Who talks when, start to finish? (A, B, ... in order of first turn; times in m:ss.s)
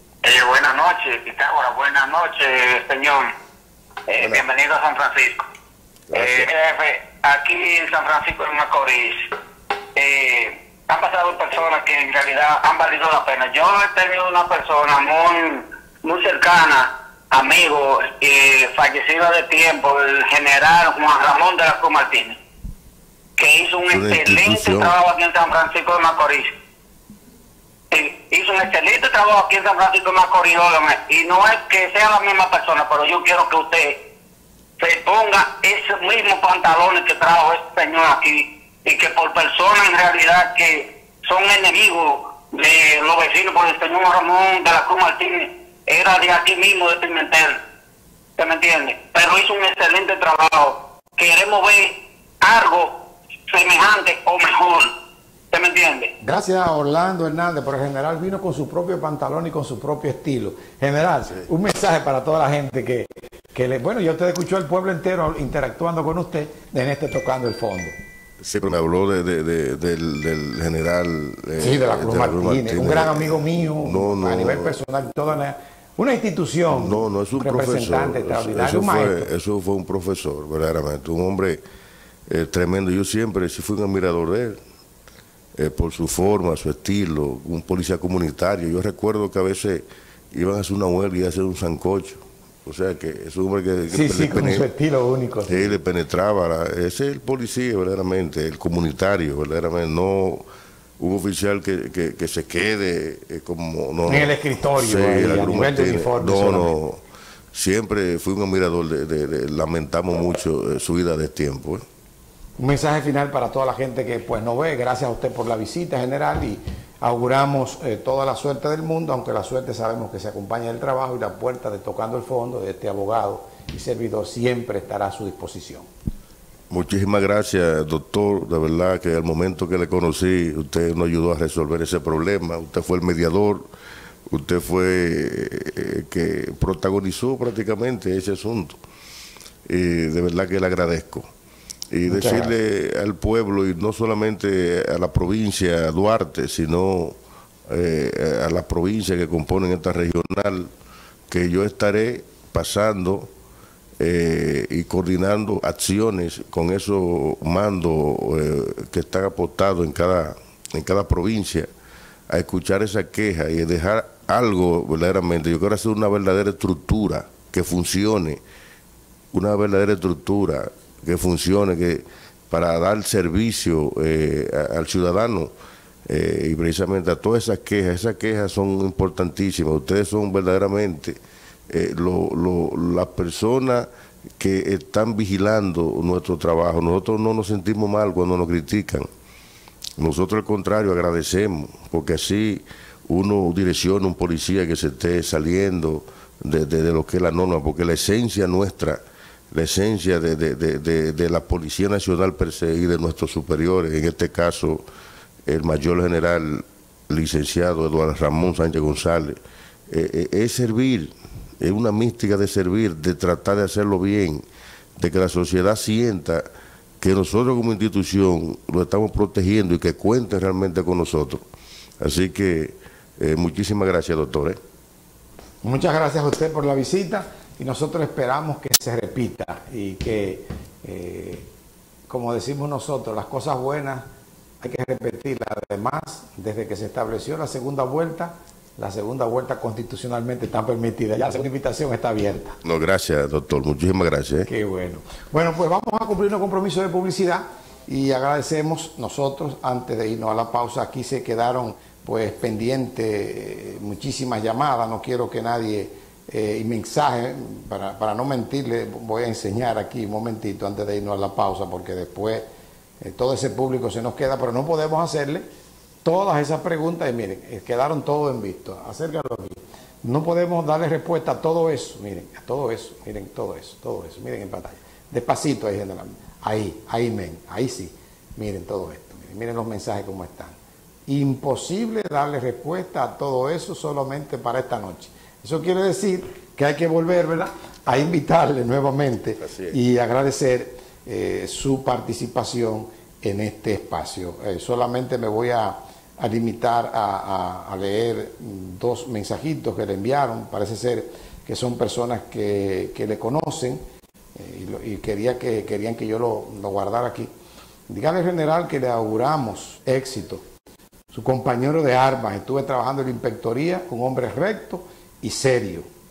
0:00.2-0:03.3 A
0:04.1-0:05.5 A
0:04.2-0:04.4 B
0:06.1-0:06.5 B
0:06.1-0:09.3 A
0:10.0-0:22.4 A
0:23.4-0:26.5 A
0:23.9-0:24.9 B
0:27.9-0:34.0 A
0:34.8-0:47.6 A
0:48.4-0:53.0 A
0:53.5-0:54.9 A
0:55.5-0:56.1 A
0:56.2-1:08.0 C
1:08.4-1:14.8 B
1:11.6-1:19.3 C
1:16.7-1:21.6 B
1:22.3-1:24.6 B
1:25.6-1:34.7 B
1:33.9-1:35.8 C
1:35.5-1:40.4 B
1:41.0-1:47.0 B
1:44.1-1:46.7 C
1:47.5-1:51.8 B
1:52.6-2:05.9 C
2:06.7-2:13.7 B
2:14.3-2:18.8 B
2:19.7-2:21.3 B
2:21.9-2:27.2 B
2:22.1-2:22.6 C
2:27.7-2:30.7 B
2:31.3-2:33.3 B
2:34.0-2:41.7 B
2:42.3-2:48.4 B
2:49.3-2:55.5 B
2:56.1-3:03.9 B
3:04.4-3:09.1 B
3:10.0-3:24.8 B
3:25.5-3:29.4 B
3:29.9-3:34.4 B
3:35.0-3:36.5 B
3:37.0-3:41.4 B
3:42.0-3:44.6 B
3:45.6-3:51.5 C
3:52.1-3:54.1 C
3:54.6-4:02.6 C
4:02.6-4:04.5 B
4:04.5-4:22.5 C
4:23.0-4:25.5 C
4:26.0-4:40.6 C
4:41.1-5:03.8 C
4:49.4-4:49.8 B
5:04.4-5:07.3 C
5:07.9-5:10.4 C
5:11.1-5:15.9 C